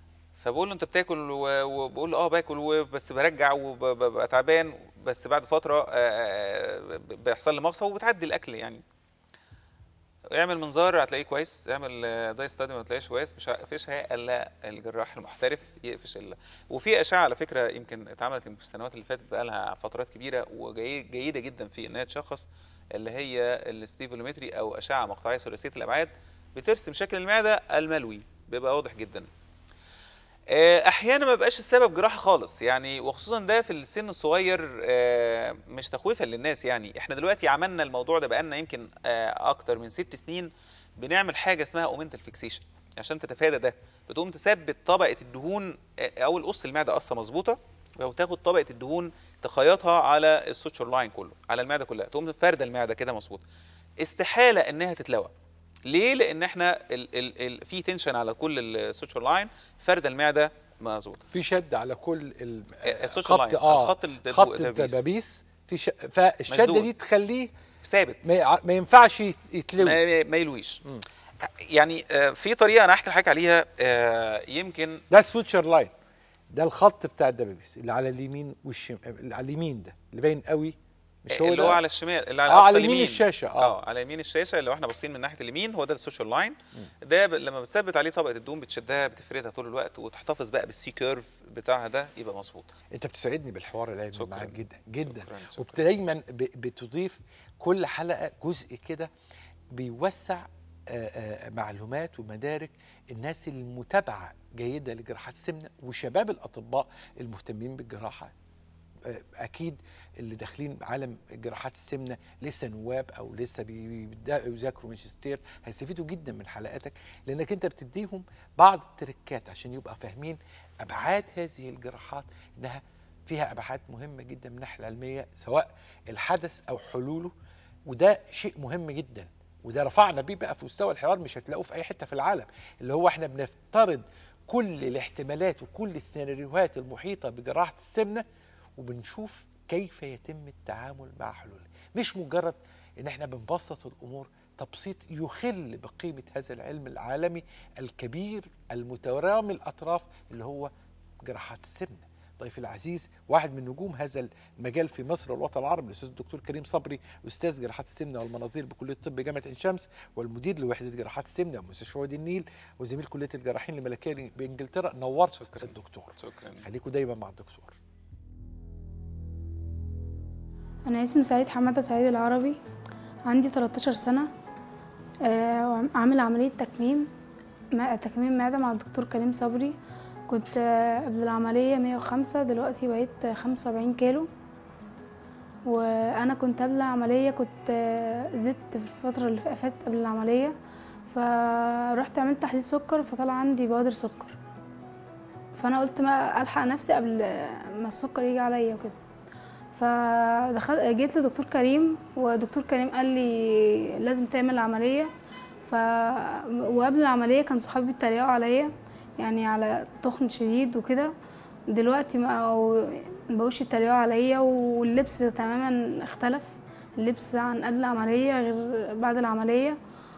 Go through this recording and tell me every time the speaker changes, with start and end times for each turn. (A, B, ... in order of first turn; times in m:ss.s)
0:00.4-0:08.8 A
0:10.3-0:29.3 A
0:30.5-0:53.4 A
0:54.0-0:55.3 A
0:55.9-1:01.2 A
1:01.3-1:07.5 B
1:02.8-1:05.0 A
1:06.5-1:06.9 A
1:07.8-1:08.3 A
1:08.2-1:10.0 B
1:09.8-1:10.8 A
1:11.4-1:15.0 A
1:15.1-1:15.9 B
1:16.5-1:21.8 B
1:21.3-1:32.7 A
1:22.5-1:23.8 B
1:33.0-1:39.1 B
1:34.1-1:35.9 A
1:39.7-1:48.3 B
1:49.0-2:07.3 B
2:07.9-2:18.2 B
2:18.8-2:30.7 B
2:31.2-2:47.8 B
2:45.4-2:46.6 A
2:50.9-2:52.6 C
2:53.3-2:54.3 C
2:55.2-2:57.1 C
2:57.8-2:59.7 C
3:00.3-3:04.3 C
3:05.6-3:10.5 C
3:11.1-3:14.4 C
3:15.6-3:19.0 C
3:19.7-3:25.1 C
3:25.6-3:31.1 C
3:31.7-3:39.8 C